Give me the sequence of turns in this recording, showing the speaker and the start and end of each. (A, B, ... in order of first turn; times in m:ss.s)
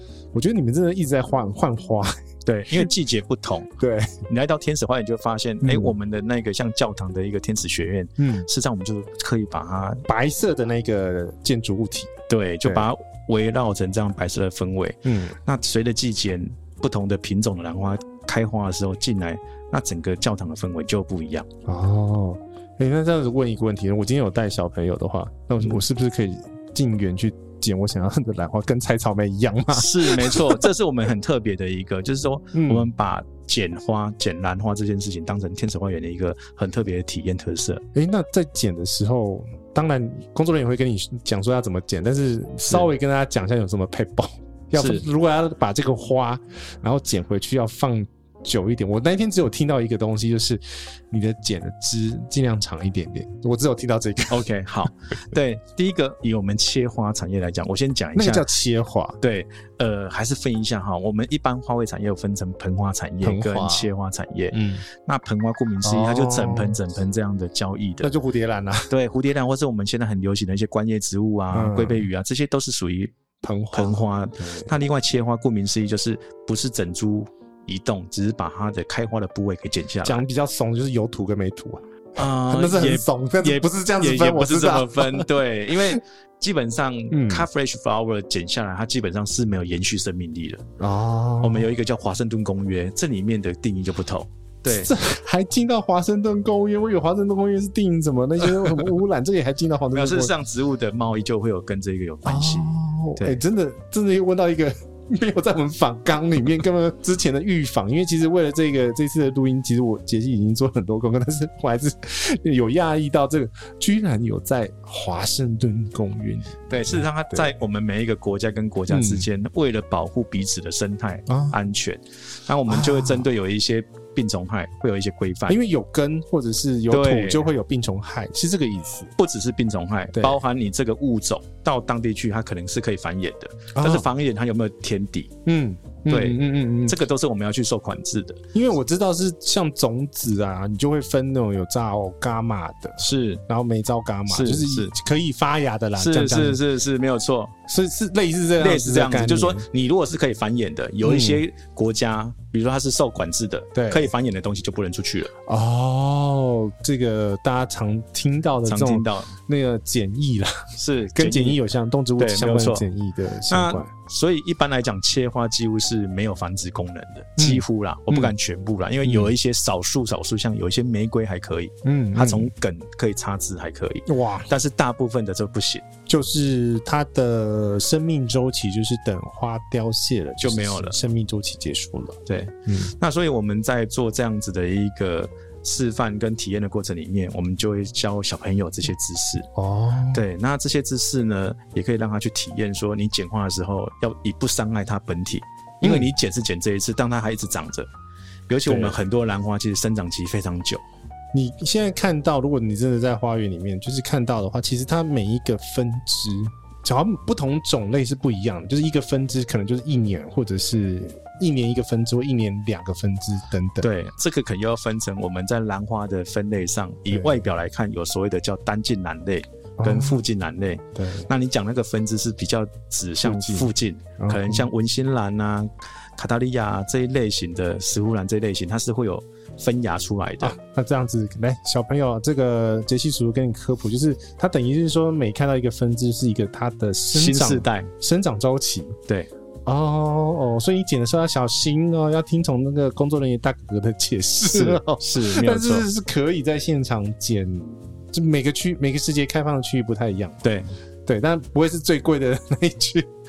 0:00.3-0:02.2 A
0:02.4-0:03.7 B
0:03.8-0:04.2 A
0:04.3-0:10.0 B
0:05.6-0:05.9 A
0:08.2-0:08.5 A
0:10.1-0:12.9 A
0:12.3-0:21.5 B
0:15.0-0:15.4 A
0:21.6-0:30.7 A
0:29.7-0:37.8 B
0:32.5-0:32.9 A
0:37.9-0:54.4 A
0:44.8-0:45.0 B
0:54.3-0:58.5 B
0:58.1-0:59.2 A
0:59.2-1:08.1 B
1:03.2-1:03.9 A
1:04.5-1:04.8 A
1:05.8-1:06.8 A
1:08.0-1:08.9 A
1:08.9-1:13.1 B
1:11.5-1:12.1 A
1:13.4-1:14.7 A
1:13.7-1:20.2 B
1:20.0-1:25.3 A
1:22.2-1:30.6 B
1:27.1-1:27.5 A
1:30.8-1:31.7 A
1:31.4-1:34.9 B
1:34.7-1:40.3 A
1:39.9-1:43.4 B
1:42.2-1:57.5 A
1:56.7-2:05.6 B
1:58.9-1:59.3 A
2:01.3-2:01.6 A
2:02.7-2:03.3 A
2:05.5-2:09.1 A
2:06.9-2:07.5 B
2:09.2-2:15.3 B
2:10.1-2:10.4 A
2:13.7-2:14.1 A
2:15.4-2:17.0 A
2:16.1-2:18.4 B
2:18.5-2:26.6 A
2:23.0-2:23.4 B
2:24.3-2:24.9 B
2:26.0-2:27.5 B
2:27.7-2:29.7 A
2:28.6-2:35.3 B
2:31.0-2:31.4 A
2:33.7-2:34.1 A
2:35.5-2:43.9 A
2:38.6-2:39.3 B
2:40.8-2:41.6 B
2:42.2-2:42.8 B
2:43.5-2:55.8 B
2:47.4-2:48.3 A
2:49.0-2:49.3 A
2:51.8-2:52.5 A
2:54.1-2:54.5 A
2:56.1-3:02.9 A
3:00.4-3:01.0 B
3:02.3-3:09.5 B
3:09.5-3:10.2 A
3:10.1-3:17.9 B
3:15.8-3:16.1 A
3:18.5-3:20.8 B
3:18.6-3:19.0 A
3:21.3-3:33.9 A
3:33.8-3:50.6 B
3:37.1-3:37.5 A
3:39.8-3:40.2 A
3:40.9-3:41.3 A
3:43.2-3:44.7 A
3:50.4-3:59.0 A
3:57.1-3:57.9 B
3:59.6-4:10.4 A
4:04.5-4:05.8 B
4:10.4-4:10.7 B
4:11.0-4:13.1 A